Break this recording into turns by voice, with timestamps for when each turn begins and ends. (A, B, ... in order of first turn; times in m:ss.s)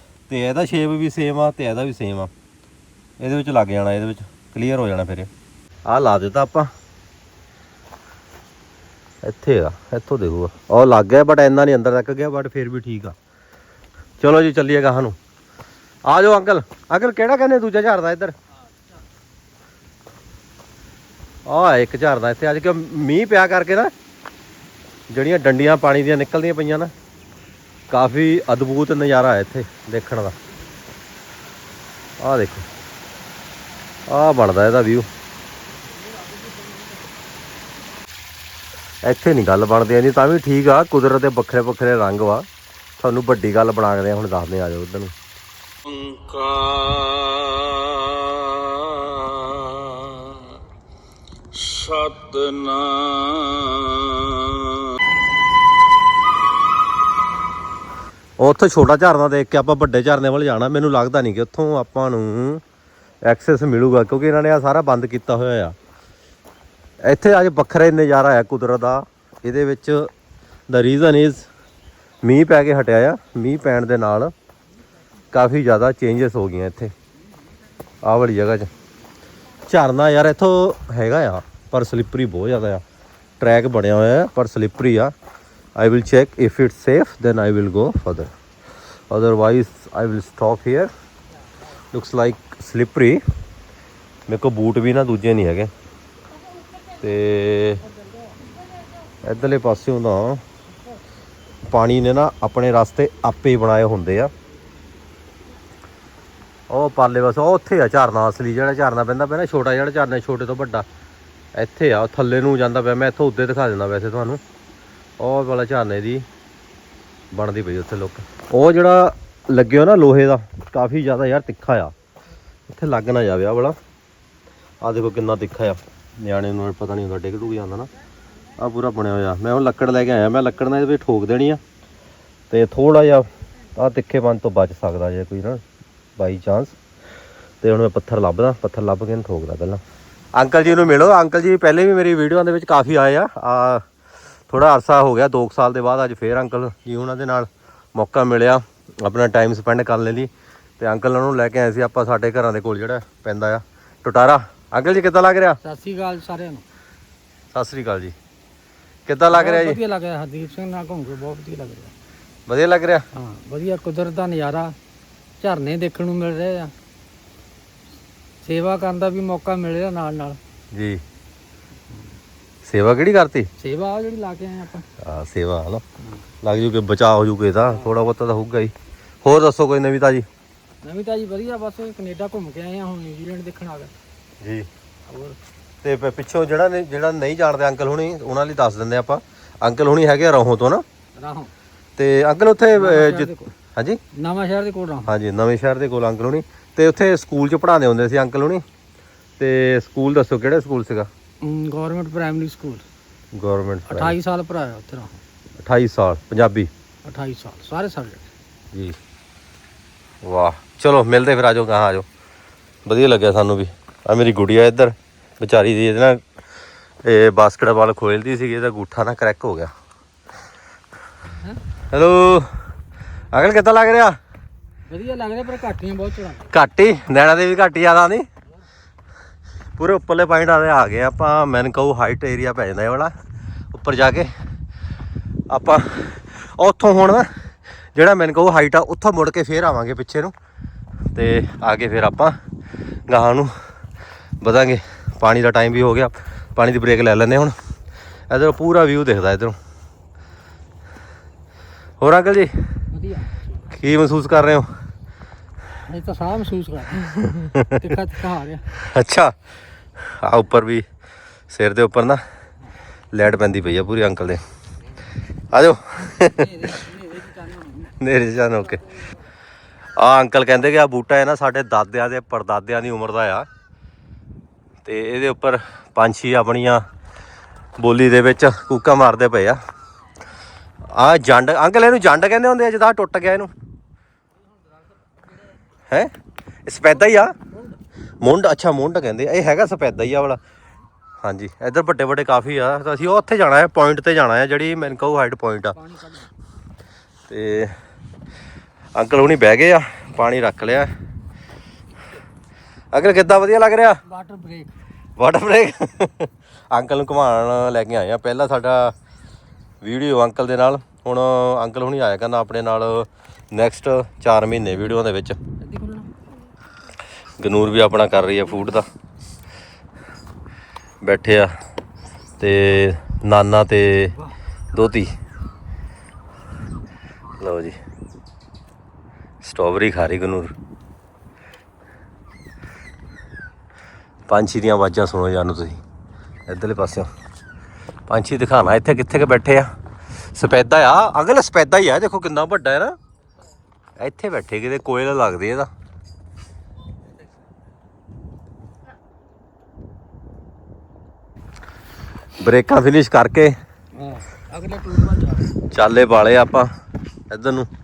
0:00.3-0:02.3 A
0:03.2-0:05.3 A
0:05.9-0:06.7 A
0:09.2-0:13.2 A
0:14.2-0:15.2 A
0:16.1-0:18.4 A
0:21.5-0:23.9 A
0:25.1-0:26.9 A
0:27.9-0:30.4 A
0:32.2-0:32.7 A
0:34.1-0:35.1 A
0:39.0-0:42.5 A
0:43.0-0:45.1 A
0:45.8-0:50.5 B
0:51.5-0:54.9 B
0:58.4-1:02.6 A
1:03.2-1:05.8 A
1:07.0-1:10.1 A
1:10.7-1:11.5 A
1:12.2-1:14.3 A
1:15.3-1:16.9 A
1:18.0-1:18.7 A
1:19.7-1:22.8 A
1:23.4-1:25.1 A
1:25.8-1:28.3 A
1:29.1-1:30.9 A
1:31.9-1:33.2 A
1:34.3-1:35.7 A
1:37.0-1:37.8 A
1:39.2-1:40.4 A
1:41.7-1:44.3 A
1:46.7-1:50.9 A
1:51.6-1:54.4 A
1:55.2-1:56.3 A
1:57.3-2:01.9 A
2:02.7-2:03.8 A
2:04.8-2:07.9 A
2:08.6-2:11.6 A
2:12.5-2:15.6 A
2:16.2-2:16.8 A
2:17.6-2:19.8 A
2:20.4-2:23.8 A
2:24.5-2:35.6 A
2:35.6-2:36.6 C
2:37.5-2:38.2 A
2:39.1-2:39.8 A
2:39.3-2:41.9 C
2:42.5-2:43.0 A
2:43.1-2:44.8 C
2:45.4-2:46.7 C
2:48.4-2:50.4 C
2:50.7-2:51.0 A
2:52.6-2:53.5 A
2:53.6-2:54.9 C
2:55.0-2:55.8 A
2:56.4-3:00.3 A
3:00.8-3:03.9 C
3:04.4-3:04.7 A
3:05.1-3:05.4 C
3:05.8-3:10.8 A
3:11.2-3:11.5 C
3:12.0-3:14.0 A
3:12.8-3:13.5 C
3:14.2-3:15.1 C
3:15.1-3:18.6 A
3:19.4-3:21.1 A
3:21.4-3:22.8 C
3:23.3-3:24.2 A
3:23.9-3:25.2 C
3:25.6-3:26.7 A
3:27.0-3:28.2 C
3:28.7-3:29.0 A
3:30.2-3:32.1 A
3:32.9-3:36.2 A
3:37.0-3:39.7 A
3:41.9-3:42.5 A
3:43.3-3:44.2 A
3:44.9-3:46.5 C
3:46.5-3:48.3 A
3:49.8-3:53.1 A
3:53.7-3:54.3 A
3:55.5-3:57.3 A
3:58.0-4:00.3 A
4:01.1-4:02.4 A
4:03.1-4:03.5 A
4:04.4-4:07.6 A
4:08.3-4:09.6 A
4:12.0-4:12.5 A
4:12.9-4:13.4 C
4:13.7-4:14.7 A
4:15.9-4:18.6 C
4:17.5-4:17.9 A
4:18.8-4:19.3 A
4:20.0-4:20.8 A
4:21.5-4:22.2 A
4:23.1-4:24.4 A
4:25.5-4:26.7 A
4:26.4-4:27.9 C
4:28.0-4:28.8 A
4:30.0-4:33.5 A
4:34.8-4:36.8 A
4:37.8-4:39.6 A
4:40.9-4:43.5 A
4:46.7-4:47.4 A
4:48.2-4:50.4 A
4:51.2-4:55.8 A
4:55.8-4:56.3 C
4:57.3-4:57.8 A
4:59.0-5:00.9 A
5:02.9-5:04.0 A
5:04.1-5:04.7 C
5:05.2-5:09.0 A
5:09.8-5:15.4 A
5:15.6-5:16.1 C
5:17.4-5:18.9 A
5:21.0-5:21.6 A
5:22.4-5:24.2 A
5:24.7-5:25.1 A
5:27.4-5:27.8 A
5:29.4-5:30.5 A
5:34.3-5:35.8 A
5:36.5-5:37.1 A
5:38.1-5:39.7 A
5:40.3-5:43.0 A
5:44.0-5:45.7 A
5:52.4-5:53.6 A
5:54.0-5:55.6 C
5:55.7-5:56.7 A
5:57.3-5:57.7 A